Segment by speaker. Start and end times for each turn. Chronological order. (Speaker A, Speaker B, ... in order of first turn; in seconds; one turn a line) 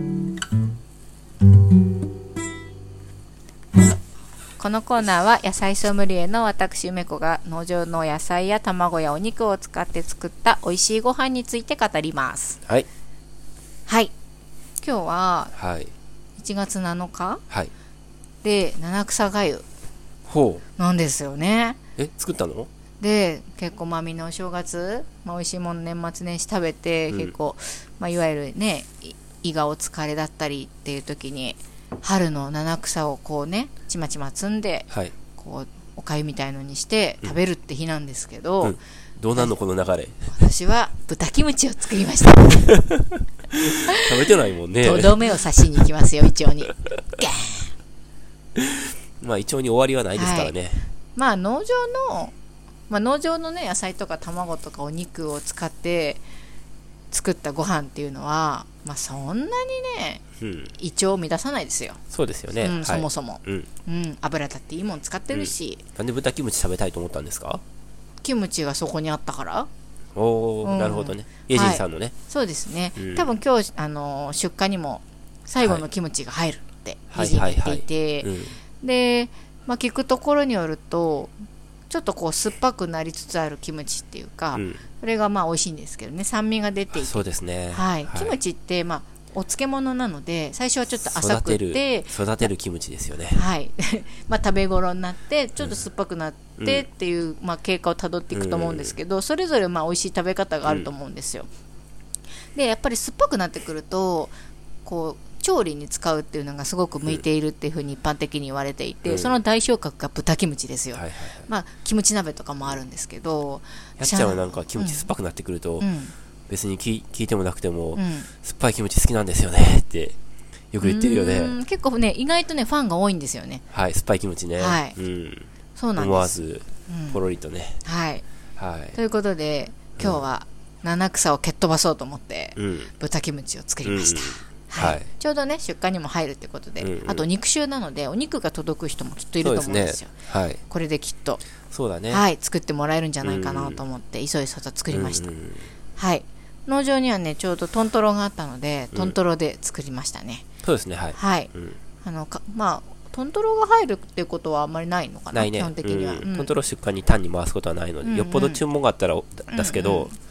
Speaker A: 4.6-12.6
Speaker A: 13.9-14.1
Speaker A: 14.8-15.6
Speaker B: 15.6-15.9
Speaker A: 16.4-17.4
Speaker A: 18.4-19.6
Speaker B: 20.3-20.6
Speaker A: 20.8-21.8
Speaker B: 22.0-22.7
Speaker A: 23.0-38.8
Speaker B: 38.6-40.3
Speaker A: 40.3-42.7
Speaker B: 42.7-43.0
Speaker B: 43.5-45.4
Speaker A: 44.8-47.7
Speaker B: 49.2-50.9
Speaker A: 50.1-50.5
Speaker A: 51.1-52.4
Speaker A: 52.9-56.2
Speaker A: 57.1-60.2
Speaker B: 60.4-60.8
Speaker A: 60.8-62.0
Speaker B: 62.1-63.7
Speaker A: 62.6-65.8
Speaker B: 65.3-67.6
Speaker A: 68.2-69.7
Speaker B: 70.2-72.1
Speaker A: 70.6-81.3
Speaker B: 73.0-73.3
Speaker B: 77.1-78.6
Speaker A: 81.9-92.5
Speaker B: 84.5-84.8
Speaker B: 87.0-88.4
Speaker B: 91.0-93.4
Speaker A: 93.3-101.5
Speaker B: 96.6-96.8
Speaker B: 98.3-99.0
Speaker A: 102.5-104.3
Speaker A: 104.8-115.1
Speaker B: 109.1-109.3
Speaker B: 110.9-111.5
Speaker B: 114.0-115.9
Speaker A: 115.8-116.1
Speaker B: 116.5-120.2
Speaker A: 118.0-118.3
Speaker B: 120.7-121.5
Speaker A: 120.8-123.6
Speaker B: 123.7-127.8
Speaker A: 124.6-125.0
Speaker A: 125.8-127.2
Speaker A: 127.8-128.2
Speaker B: 128.6-129.0
Speaker A: 128.9-140.2
Speaker B: 130.0-130.2
Speaker B: 132.6-132.9
Speaker B: 133.8-135.1
Speaker B: 136.8-137.3
Speaker B: 139.4-140.6
Speaker A: 140.7-141.4
Speaker B: 141.7-142.2
Speaker A: 142.1-145.3
Speaker B: 143.2-143.8
Speaker B: 144.9-145.7
Speaker A: 146.0-150.5
Speaker B: 150.6-151.8
Speaker A: 151.2-151.5
Speaker A: 152.0-156.5
Speaker B: 155.3-160.1
Speaker A: 158.0-158.6
Speaker A: 159.5-160.1